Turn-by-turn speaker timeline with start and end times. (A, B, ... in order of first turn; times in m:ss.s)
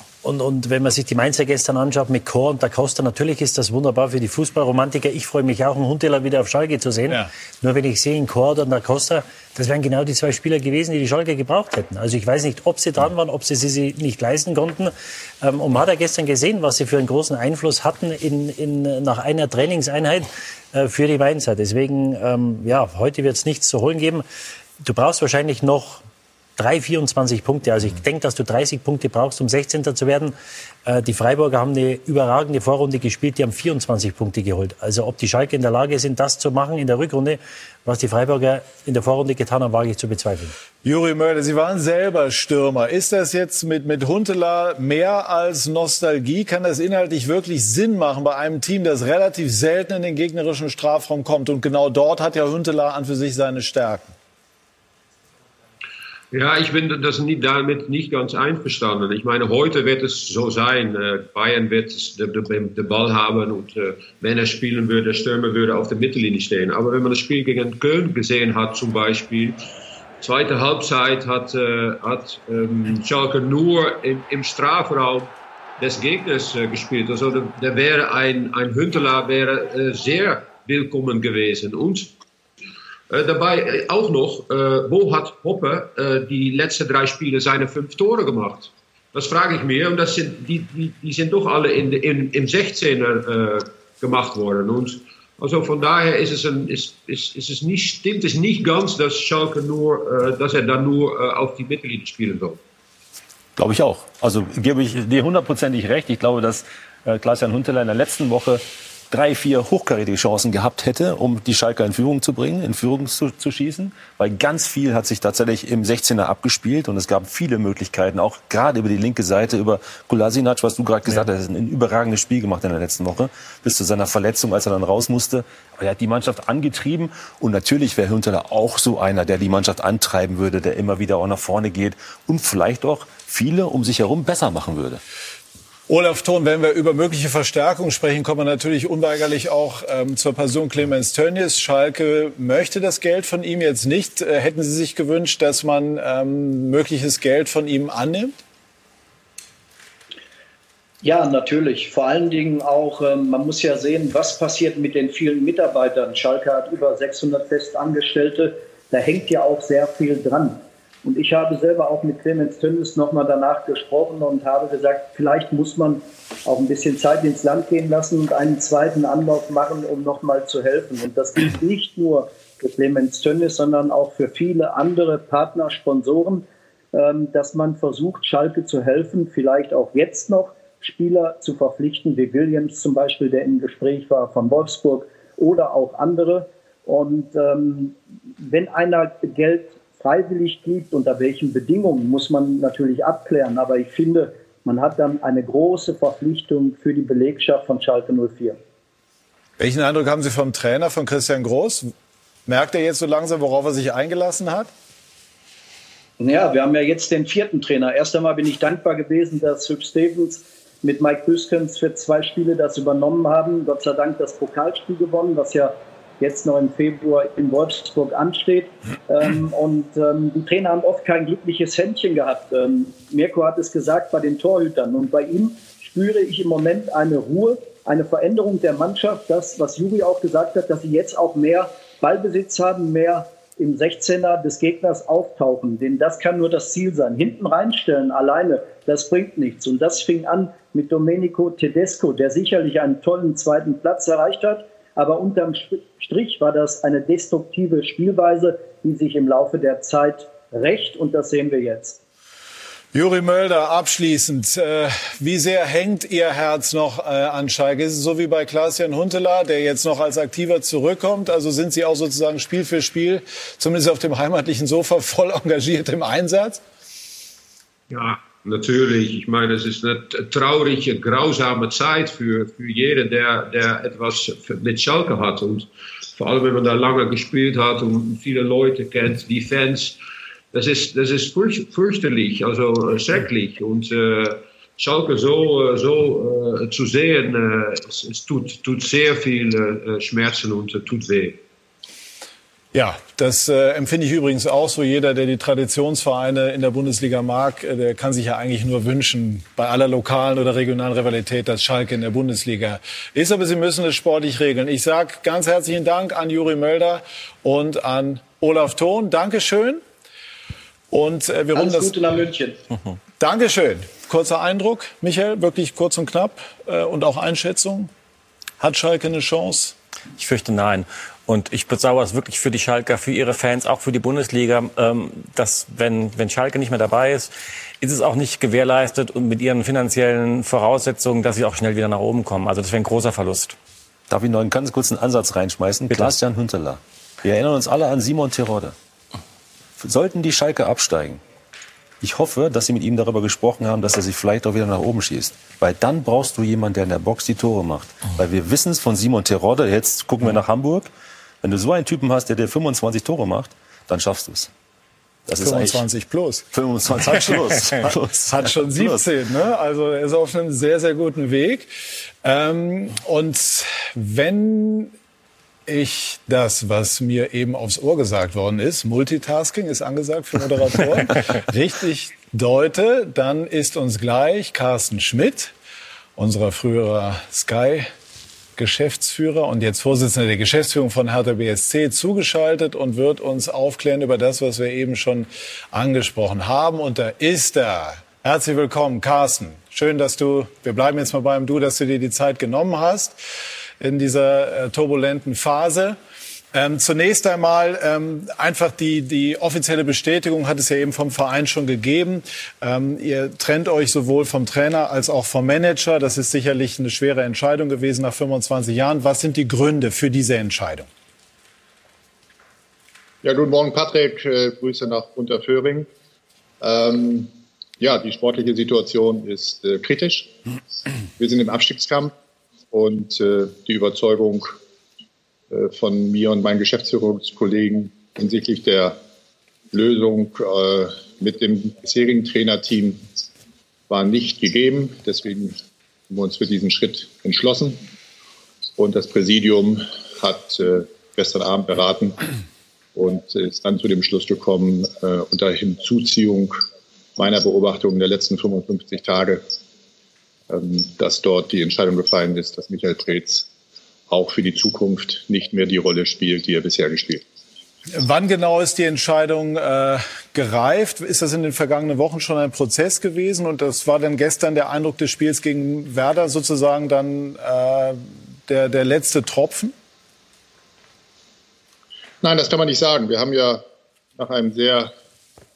0:00.2-0:24.2 A
0:24.8-0:26.0 A
0:26.6-0:30.3 A
0:30.9-0:40.6 A
0:40.8-0:54.1 B
0:56.3-1:09.6 C
1:10.2-1:22.2 C
1:23.1-1:42.6 C
1:43.6-2:15.0 D
2:15.9-2:28.4 B
2:31.0-3:18.6 E
3:19.6-3:21.9 B
3:22.5-3:24.7 B
3:26.2-4:12.0 E
4:12.9-4:26.6 B
4:27.9-4:40.0 C
4:40.5-4:51.4 C
4:52.7-5:09.8 B
5:10.9-5:12.0 B
5:11.5-5:12.6 E
5:13.2-5:17.9 B
5:18.6-5:19.8 B
5:20.2-5:33.6 F
5:34.1-5:38.8 D
5:35.9-5:36.2 F
5:39.8-5:41.2 D
5:42.0-5:50.9 D
5:51.4-5:54.5 D
5:55.3-5:55.9 D
5:55.4-5:56.4 B
5:56.5-5:59.0 D
5:58.2-6:01.7 B
6:02.2-6:04.9 B
6:05.7-6:15.5 B
6:16.2-6:17.9 B
6:18.6-6:33.2 B
6:33.8-6:36.0 B
6:36.5-6:50.9 B
6:53.2-6:55.9 G
6:56.6-7:00.3 G
7:01.2-7:02.1 G
7:02.7-7:04.6 G
7:05.5-7:09.0 G
7:09.7-7:13.0 G
7:13.9-7:17.8 G
7:18.8-7:22.2 G
7:23.0-7:26.6 G
7:27.2-7:29.5 G
7:30.5-7:33.5 G
7:34.1-7:37.2 G
7:37.9-7:49.7 B
7:52.2-7:53.6 G
7:54.2-7:54.9 G